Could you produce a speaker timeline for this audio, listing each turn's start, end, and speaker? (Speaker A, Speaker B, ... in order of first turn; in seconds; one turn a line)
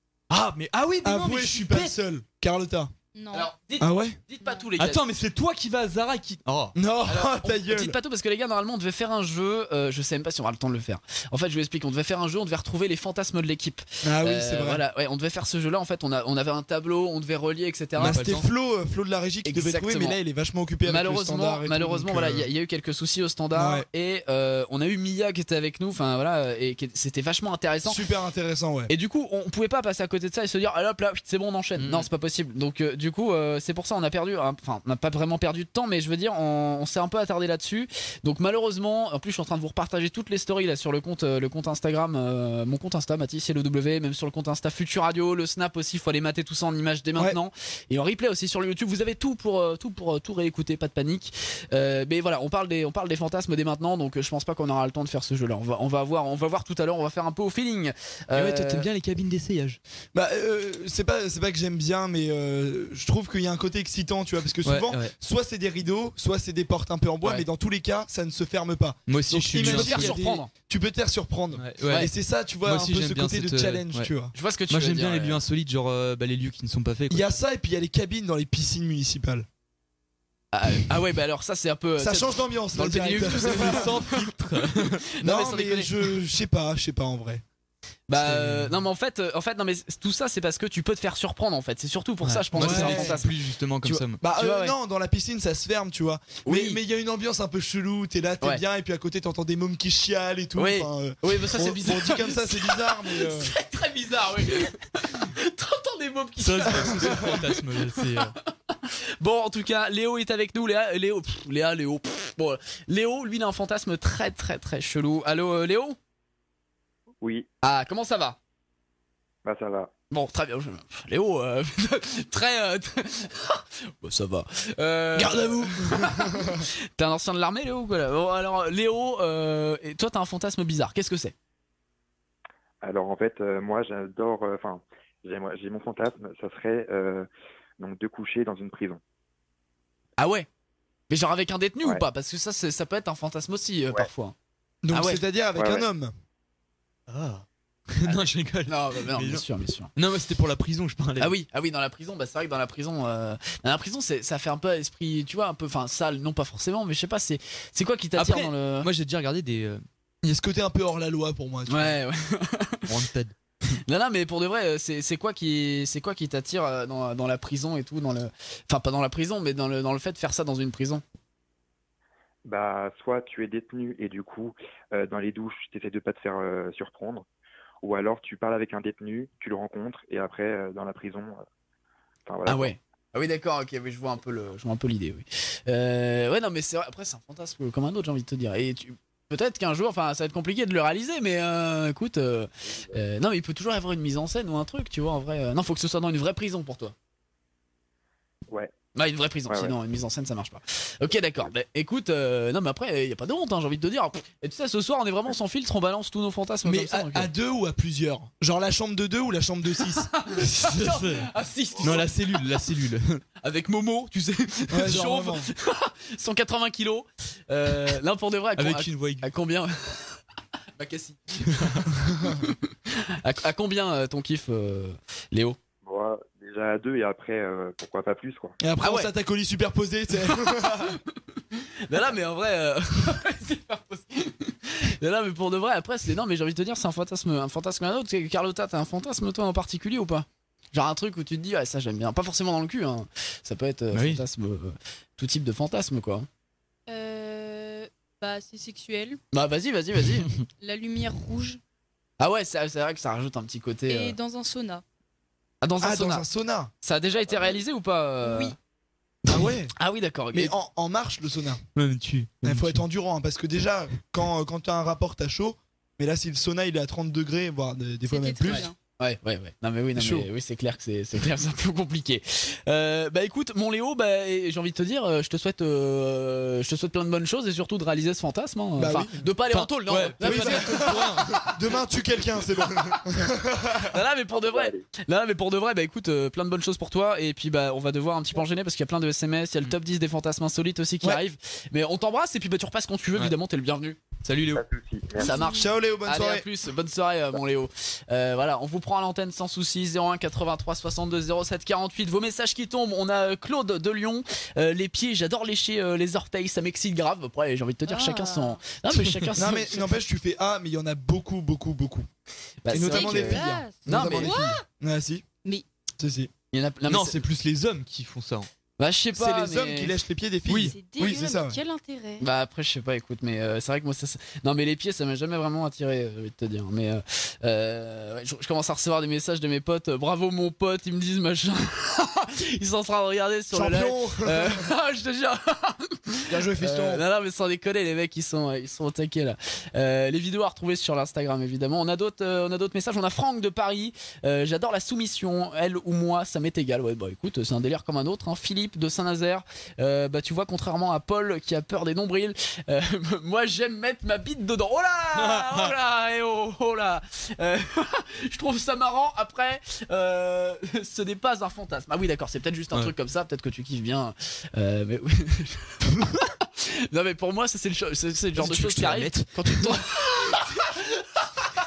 Speaker A: 0.3-1.9
Speaker B: 1.0-2.9
Speaker C: 3.1-3.5
Speaker D: 3.3-5.0
Speaker B: 3.8-4.2
Speaker A: 4.8-6.8
Speaker B: 6.7-8.0
Speaker D: 7.1-18.2
Speaker B: 14.0-14.8
Speaker B: 18.0-22.5
Speaker A: 18.0-18.5
Speaker D: 19.4-20.2
Speaker D: 20.8-28.0
Speaker B: 23.5-23.9
Speaker B: 27.8-28.9
Speaker D: 28.9-58.9
Speaker A: 31.8-32.1
Speaker A: 58.3-59.8
Speaker B: 60.1-74.3
Speaker A: 64.6-65.1
Speaker A: 69.1-70.1
Speaker D: 69.6-70.5
Speaker A: 71.5-72.1
Speaker D: 71.8-72.1
Speaker A: 72.6-74.1
Speaker D: 74.3-75.4
Speaker A: 74.7-77.3
Speaker B: 77.1-79.5
Speaker D: 80.5-84.4
Speaker B: 82.0-83.9
Speaker A: 83.2-85.0
Speaker D: 85.2-85.9
Speaker B: 85.2-87.4
Speaker D: 88.1-93.3
Speaker A: 88.2-88.7
Speaker A: 92.2-94.2
Speaker B: 92.5-93.2
Speaker D: 93.8-94.7
Speaker B: 94.2-103.5
Speaker D: 96.4-96.8
Speaker D: 100.5-116.0
Speaker A: 106.4-108.3
Speaker B: 106.8-107.2
Speaker D: 117.6-118.4
Speaker E: 119.4-119.9
Speaker D: 120.1-131.3
Speaker B: 125.2-126.7
Speaker E: 132.8-137.3
Speaker E: 137.8-139.0
Speaker D: 140.2-140.5
Speaker D: 141.1-144.3
Speaker B: 144.8-146.1
Speaker D: 144.9-145.2
Speaker E: 145.6-145.9
Speaker A: 147.1-149.4
Speaker D: 148.0-149.9
Speaker A: 149.9-151.3
Speaker D: 151.2-158.9
Speaker A: 158.2-159.8
Speaker B: 160.2-162.0
Speaker D: 161.7-162.8
Speaker A: 162.9-163.3
Speaker D: 163.9-171.0
Speaker E: 172.4-177.2
Speaker E: 177.8-181.4
Speaker E: 182.3-182.8
Speaker D: 182.4-196.9
Speaker D: 198.9-207.3
Speaker E: 199.5-199.8
Speaker B: 206.6-210.1
Speaker D: 210.2-212.1
Speaker A: 210.4-211.3
Speaker A: 211.8-213.2
Speaker D: 213.4-220.2
Speaker B: 214.7-215.5
Speaker A: 218.6-219.2
Speaker D: 220.8-225.6
Speaker B: 222.0-222.4
Speaker E: 225.8-228.6
Speaker B: 228.6-231.0
Speaker D: 228.8-229.1
Speaker D: 231.9-246.3
Speaker A: 243.9-244.2
Speaker C: 246.9-249.2
Speaker D: 249.3-250.3
Speaker C: 250.6-251.6
Speaker D: 252.2-254.2
Speaker C: 253.9-254.8
Speaker D: 255.6-256.2
Speaker B: 255.8-256.7
Speaker D: 256.8-258.6
Speaker C: 258.2-258.5
Speaker B: 259.3-259.7
Speaker D: 259.8-260.5
Speaker B: 260.3-261.6
Speaker A: 261.7-262.8
Speaker B: 262.4-268.7
Speaker C: 268.1-268.8
Speaker D: 268.4-281.0
Speaker B: 269.9-270.3
Speaker B: 278.8-279.3
Speaker A: 279.5-281.5
Speaker B: 280.2-284.0
Speaker D: 283.8-294.0
Speaker E: 284.3-284.9
Speaker A: 294.2-294.6
Speaker E: 294.5-295.4
Speaker C: 295.2-295.6
Speaker D: 295.2-309.8
Speaker B: 295.4-296.4
Speaker C: 307.9-308.6
Speaker B: 309.3-312.1
Speaker D: 312.6-314.4
Speaker B: 312.7-315.2
Speaker C: 312.8-314.6
Speaker B: 316.0-316.3
Speaker D: 316.5-317.2
Speaker A: 316.9-318.5
Speaker D: 318.8-319.9
Speaker B: 319.1-321.6
Speaker C: 320.6-322.2
Speaker D: 322.2-365.7
Speaker B: 333.5-334.6
Speaker B: 336.3-337.0
Speaker A: 355.1-355.7
Speaker D: 366.6-370.8
Speaker A: 368.4-369.8